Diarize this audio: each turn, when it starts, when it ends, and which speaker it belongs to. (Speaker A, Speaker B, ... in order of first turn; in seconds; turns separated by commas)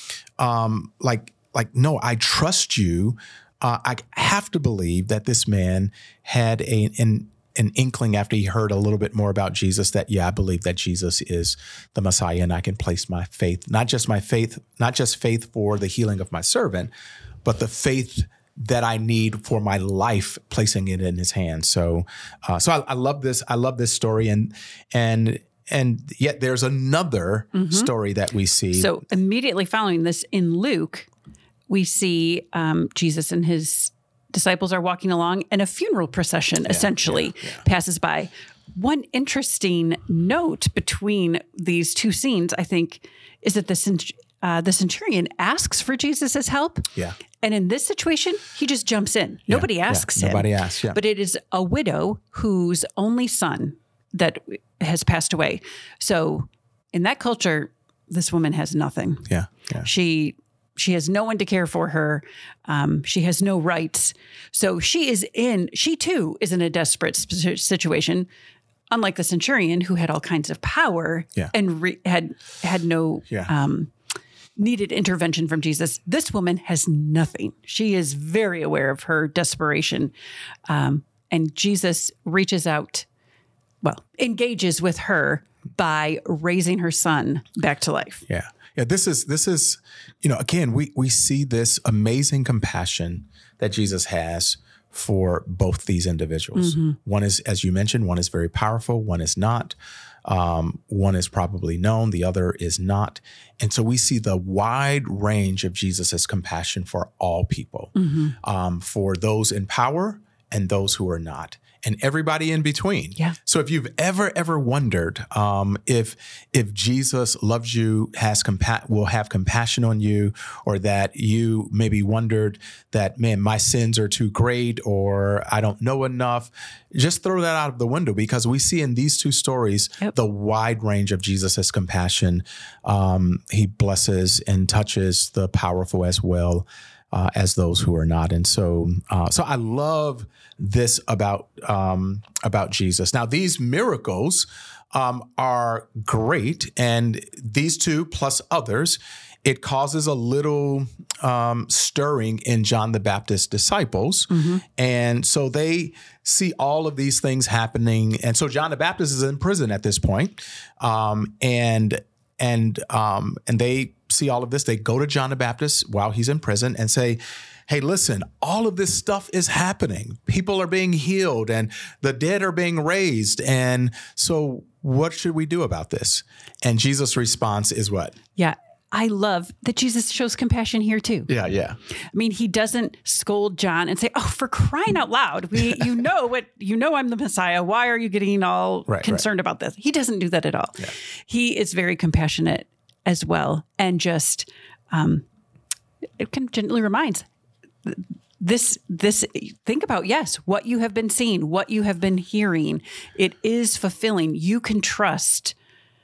Speaker A: 0.4-16.9, Speaker A: 17.4-28.9, Speaker B: 27.5-27.9, Speaker B: 28.7-31.1, Speaker B: 31.7-46.9, Speaker A: 36.7-37.6, Speaker B: 47.4-68.3, Speaker A: 49.5-51.0, Speaker A: 59.3-59.9, Speaker B: 68.9-73.9, Speaker B: 74.6-80.1, Speaker B: 80.7-83.1, Speaker B: 83.8-88.2, Speaker A: 88.3-178.2, Speaker B: 96.5-97.0, Speaker B: 108.0-108.3, Speaker B: 154.3-154.6, Speaker B: 178.4-181.3, Speaker A: 181.3-181.8, Speaker B: 182.1-195.2, Speaker A: 188.9-189.2, Speaker B: 196.2-197.3, Speaker B: 197.8-205.5